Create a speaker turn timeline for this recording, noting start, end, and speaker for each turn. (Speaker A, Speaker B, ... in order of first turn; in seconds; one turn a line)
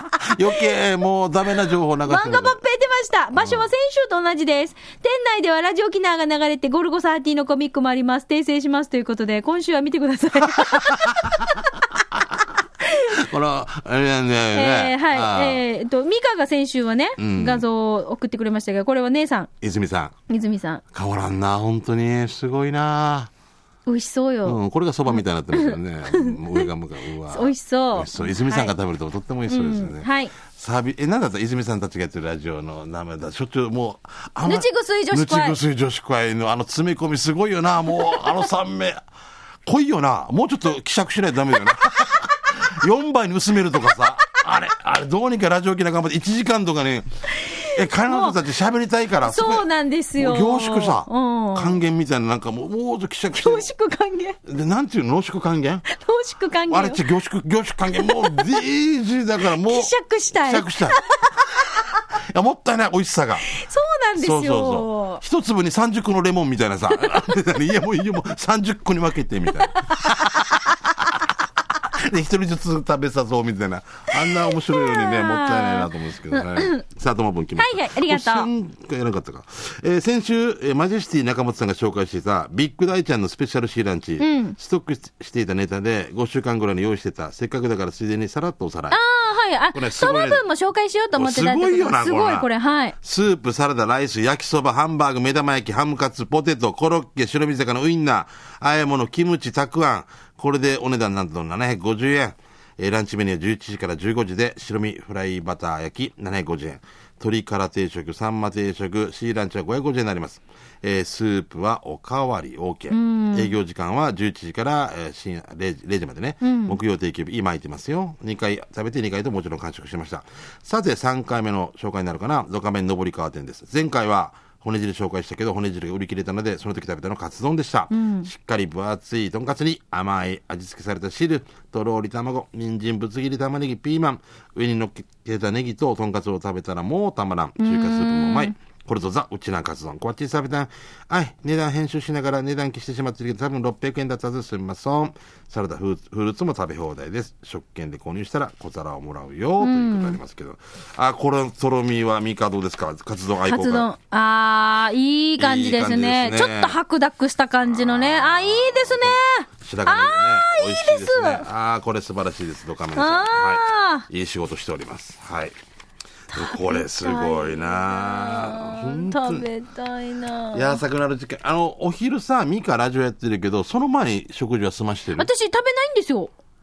Speaker A: 0.2-2.6
Speaker B: 2.1-11.6
Speaker A: 3.4-3.7
Speaker A: 10.6-11.6
Speaker A: 12.2-12.4
Speaker B: 12.9-13.2
Speaker A: 13.0-15.6
Speaker B: 14.5-19.5
Speaker A: 17.2-17.6
Speaker A: 19.6-20.1
Speaker B: 20.3-20.8
Speaker A: 20.9-23.3
Speaker B: 23.9-24.6
Speaker A: 24.4-39.0
Speaker B: 25.1-26.6
Speaker B: 27.3-28.7
Speaker B: 29.5-30.3
Speaker B: 34.5-35.6
Speaker A: 39.7-47.1
Speaker B: 47.4-48.4
Speaker A: 47.6-49.7
Speaker B: 49.2-51.8
Speaker A: 50.2-53.7
Speaker B: 53.3-54.4
Speaker A: 54.5-55.8
Speaker B: 55.9-57.0
Speaker A: 56.7-61.0
Speaker B: 58.0-58.6
Speaker B: 59.5-61.8
Speaker A: 62.1-63.5
Speaker B: 63.5-65.2
Speaker A: 64.2-89.0
Speaker B: 74.1-76.8
Speaker B: 77.6-78.5
Speaker B: 84.2-84.6
Speaker B: 88.9-93.0
Speaker A: 89.7-90.4
Speaker A: 91.2-92.5
Speaker A: 93.0-153.9
Speaker B: 112.9-113.5
Speaker B: 116.4-116.8
Speaker B: 127.9-128.3
Speaker B: 137.6-138.6
Speaker B: 149.6-150.2
Speaker B: 153.4-161.5
Speaker A: 155.4-156.8
Speaker A: 157.7-165.6
Speaker B: 162.9-164.1
Speaker B: 166.3-170.8
Speaker A: 166.3-169.5
Speaker A: 170.5-175.3
Speaker B: 175.2-176.3